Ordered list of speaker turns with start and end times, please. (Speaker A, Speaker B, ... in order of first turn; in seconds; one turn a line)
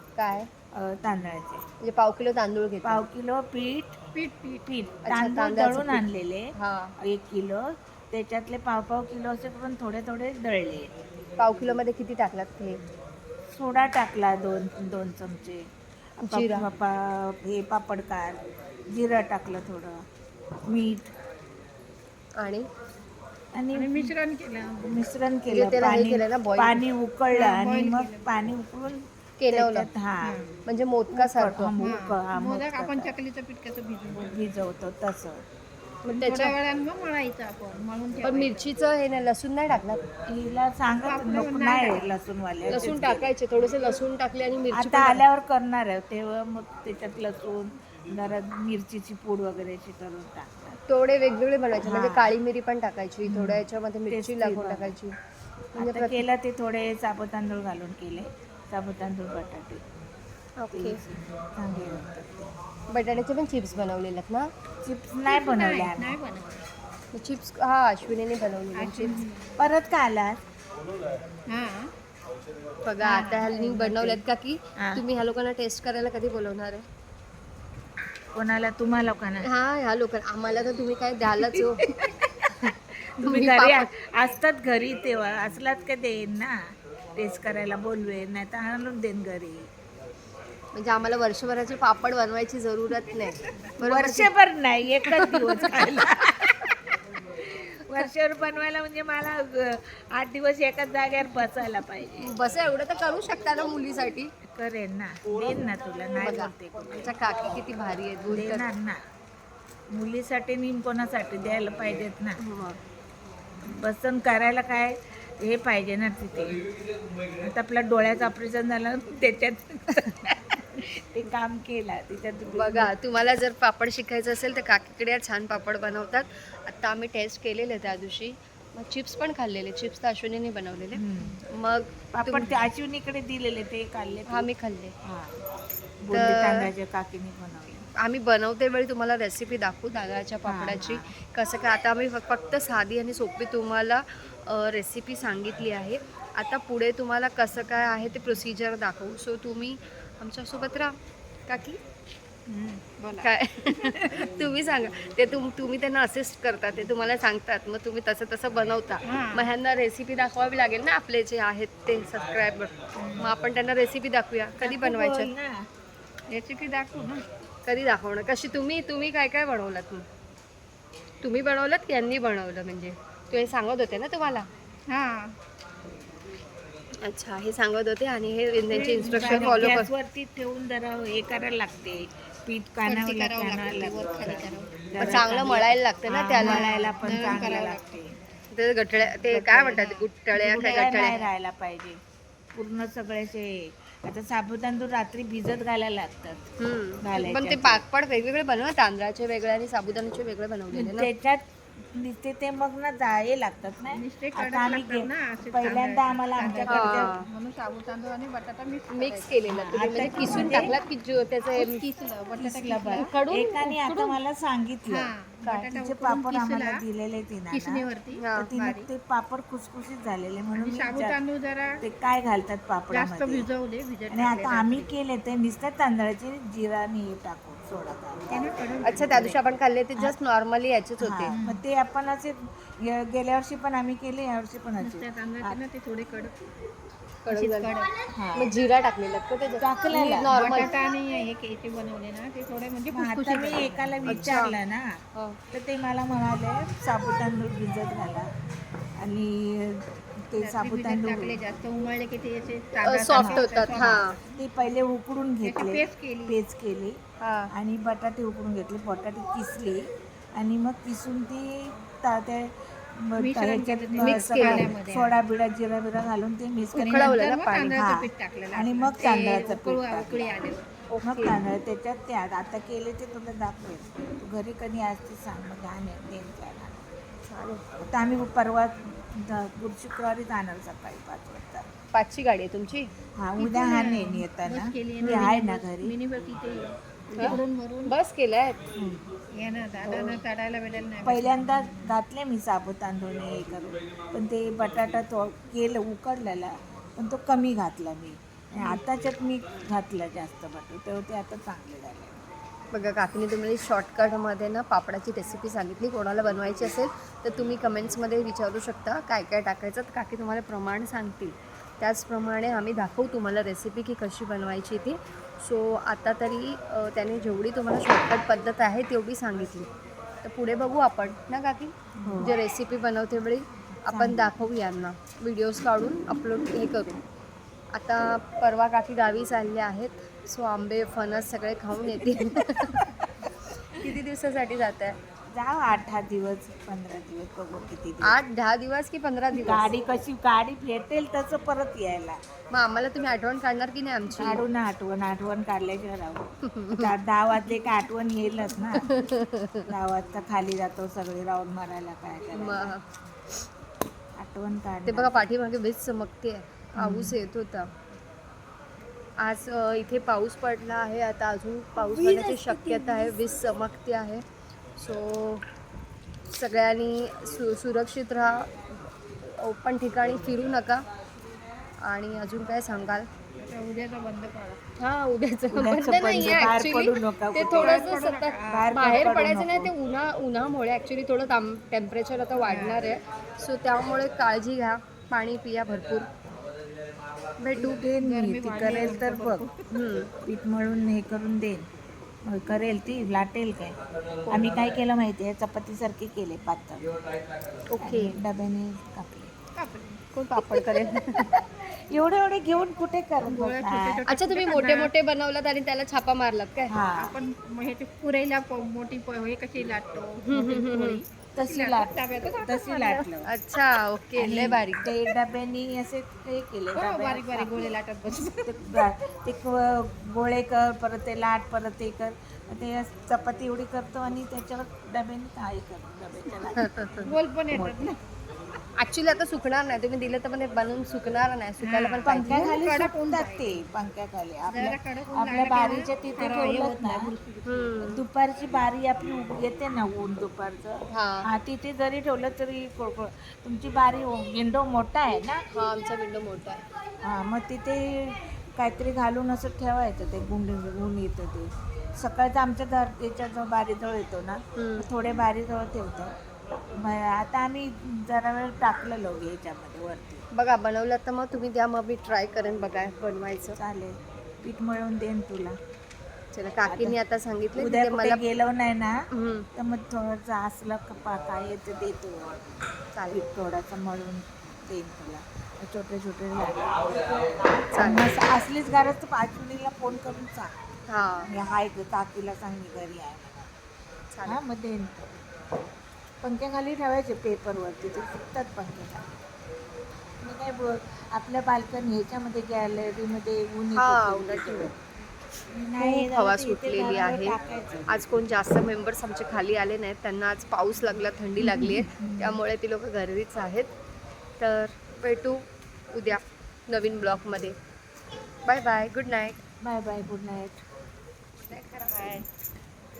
Speaker A: 0.1-0.5
Speaker B: 0.7-1.6
Speaker A: 1.8-3.0
Speaker B: 2.8-4.0
Speaker C: 4.1-4.7
Speaker B: 4.7-10.9
Speaker A: 5.1-6.0
Speaker A: 6.5-6.9
Speaker A: 11.4-12.8
Speaker B: 13.5-15.6
Speaker B: 16.2-20.0
Speaker A: 16.2-16.6
Speaker B: 20.7-21.1
Speaker A: 22.4-22.7
Speaker B: 23.5-24.1
Speaker C: 23.7-24.8
Speaker B: 24.8-30.4
Speaker A: 25.5-26.8
Speaker C: 27.3-28.3
Speaker A: 29.4-29.9
Speaker C: 30.2-30.6
Speaker A: 30.6-31.7
Speaker B: 31.1-33.1
Speaker C: 31.8-34.4
Speaker B: 34.1-35.4
Speaker A: 36.0-36.5
Speaker C: 36.1-38.6
Speaker A: 38.2-40.0
Speaker B: 40.3-43.3
Speaker C: 41.0-42.1
Speaker A: 42.7-45.2
Speaker B: 44.7-50.8
Speaker A: 50.9-55.1
Speaker B: 51.8-52.3
Speaker B: 53.3-55.0
Speaker B: 55.7-59.8
Speaker A: 55.8-56.2
Speaker A: 60.6-61.0
Speaker B: 60.7-62.5
Speaker A: 62.9-64.5
Speaker B: 64.8-66.2
Speaker C: 65.3-66.6
Speaker A: 67.1-69.2
Speaker C: 68.8-69.5
Speaker B: 69.6-70.4
Speaker C: 71.5-71.9
Speaker A: 72.8-76.8
Speaker C: 73.0-74.2
Speaker B: 78.3-79.5
Speaker A: 79.4-81.8
Speaker B: 82.4-86.5
Speaker A: 83.2-83.9
Speaker B: 87.2-89.7
Speaker A: 90.7-94.3
Speaker B: 93.8-96.6
Speaker A: 95.2-96.3
Speaker B: 97.6-102.3
Speaker A: 102.2-104.3
Speaker B: 104.4-107.1
Speaker A: 106.2-108.7
Speaker B: 108.3-109.0
Speaker B: 109.9-112.4
Speaker A: 112.4-112.8
Speaker B: 113.6-116.6
Speaker B: 117.4-122.9
Speaker A: 122.5-132.6
Speaker B: 130.9-131.4
Speaker B: 132.1-134.5
Speaker A: 134.3-134.9
Speaker B: 135.0-135.3
Speaker B: 136.0-137.8
Speaker A: 136.1-136.7
Speaker A: 138.0-150.9
Speaker B: 140.4-141.1
Speaker A: 151.5-151.8
Speaker B: 152.5-152.8
Speaker C: 152.9-153.9
Speaker A: 153.2-165.3
Speaker B: 154.0-154.4
Speaker C: 159.0-159.5
Speaker B: 164.6-165.6
Speaker C: 166.3-167.2
Speaker A: 167.7-170.0
Speaker A: 171.2-174.5
Speaker C: 174.9-175.3
Speaker A: 177.0-179.9
Speaker C: 178.7-179.7
Speaker B: 178.8-188.1
Speaker C: 182.8-185.6
Speaker A: 185.0-186.7
Speaker C: 186.4-188.0
Speaker A: 188.5-191.2
Speaker B: 189.2-192.0
Speaker C: 189.8-191.1
Speaker B: 192.5-196.4
Speaker A: 196.6-201.1
Speaker B: 197.0-197.8
Speaker B: 200.7-207.2
Speaker C: 203.9-209.4
Speaker A: 206.7-207.2
Speaker A: 208.9-211.9
Speaker B: 209.5-210.8
Speaker C: 210.1-210.7
Speaker C: 211.4-213.1
Speaker B: 212.4-215.1
Speaker A: 213.0-214.2
Speaker C: 214.9-216.8
Speaker A: 215.4-215.7
Speaker B: 215.7-217.8
Speaker C: 217.5-218.9
Speaker A: 218.2-218.5
Speaker B: 218.3-221.2
Speaker C: 220.6-221.8
Speaker B: 221.8-223.5
Speaker C: 222.9-224.9
Speaker B: 224.1-229.0
Speaker C: 228.3-229.4
Speaker A: 228.8-231.3
Speaker B: 231.0-235.6
Speaker C: 231.3-231.6
Speaker C: 234.8-236.4
Speaker A: 237.2-237.7
Speaker C: 237.3-237.9
Speaker B: 238.1-238.5
Speaker A: 238.3-240.7
Speaker B: 239.6-240.3
Speaker C: 240.0-244.0
Speaker B: 242.9-244.9
Speaker A: 244.1-244.5
Speaker B: 245.5-248.3
Speaker B: 249.0-251.4
Speaker C: 250.4-254.2
Speaker A: 252.8-254.2
Speaker B: 253.1-257.0
Speaker C: 255.4-256.4
Speaker A: 257.2-257.5
Speaker B: 257.5-267.1
Speaker C: 263.2-265.1
Speaker A: 264.0-264.7
Speaker C: 266.7-270.7
Speaker A: 266.8-267.8
Speaker B: 267.7-270.3
Speaker A: 270.9-271.4
Speaker B: 271.0-276.9
Speaker A: 277.3-277.6
Speaker B: 277.8-281.6
Speaker A: 281.9-282.9
Speaker B: 283.2-285.9
Speaker C: 283.4-287.9
Speaker A: 285.0-285.3
Speaker A: 287.1-288.6
Speaker B: 288.8-289.0
Speaker C: 289.3-291.9
Speaker A: 289.8-290.2
Speaker B: 291.0-302.2
Speaker A: 302.7-319.7
Speaker A: 320.2-327.0
Speaker B: 322.0-322.3
Speaker B: 323.8-324.3
Speaker A: 327.7-332.9
Speaker B: 332.4-332.8
Speaker A: 333.7-335.0
Speaker B: 335.3-338.2
Speaker A: 338.0-339.7
Speaker B: 339.4-342.2
Speaker A: 342.5-344.4
Speaker B: 344.1-348.9
Speaker A: 346.5-346.9
Speaker A: 348.8-349.7
Speaker B: 349.7-352.8
Speaker A: 352.3-352.8
Speaker B: 354.2-355.2
Speaker A: 354.9-357.7
Speaker B: 356.8-357.2
Speaker A: 359.2-364.2
Speaker B: 361.8-363.1
Speaker A: 364.8-365.4
Speaker A: 366.2-368.5
Speaker A: 369.4-370.8
Speaker A: 371.8-373.1
Speaker C: 373.4-374.6
Speaker A: 374.8-386.1
Speaker B: 375.5-377.9
Speaker C: 377.6-378.7
Speaker B: 378.5-379.7
Speaker C: 382.4-382.8
Speaker A: 387.4-387.8
Speaker B: 387.6-389.4
Speaker C: 388.0-389.6
Speaker A: 389.7-390.1
Speaker B: 390.2-391.7
Speaker B: 392.2-393.8
Speaker C: 394.3-394.5
Speaker B: 394.3-396.8
Speaker A: 397.7-398.2
Speaker B: 397.8-399.3
Speaker C: 399.6-400.9
Speaker B: 400.3-404.0
Speaker A: 400.4-400.8
Speaker C: 403.2-404.9
Speaker A: 404.1-406.7
Speaker B: 406.7-407.2
Speaker C: 406.9-413.1
Speaker A: 410.2-411.0
Speaker B: 411.4-413.3
Speaker A: 413.2-414.9
Speaker B: 414.2-426.9
Speaker C: 416.7-418.8
Speaker A: 426.5-427.1
Speaker C: 427.0-428.0
Speaker B: 427.5-427.9
Speaker A: 428.8-432.6
Speaker C: 431.6-433.6
Speaker B: 432.0-437.1
Speaker C: 434.5-437.8
Speaker A: 437.4-438.0
Speaker B: 437.8-445.4
Speaker A: 440.9-441.3
Speaker A: 445.5-446.6
Speaker B: 447.0-456.2
Speaker A: 454.6-454.9
Speaker B: 456.8-460.2
Speaker A: 460.3-463.6
Speaker B: 463.6-465.5
Speaker A: 466.3-468.2
Speaker B: 466.6-467.0
Speaker B: 467.6-468.9
Speaker A: 469.1-469.5
Speaker B: 469.5-472.4
Speaker A: 472.9-473.2
Speaker B: 473.1-480.6
Speaker A: 477.7-478.1
Speaker A: 480.9-481.3
Speaker B: 481.3-483.5
Speaker A: 484.1-484.4
Speaker B: 484.2-485.0
Speaker B: 486.2-489.1
Speaker B: 490.2-494.7
Speaker A: 493.7-494.7
Speaker B: 495.5-498.1
Speaker A: 495.8-497.4
Speaker A: 497.9-503.7
Speaker B: 501.4-502.4
Speaker A: 504.4-507.5
Speaker A: 508.4-509.4
Speaker B: 509.6-510.6
Speaker A: 511.4-512.3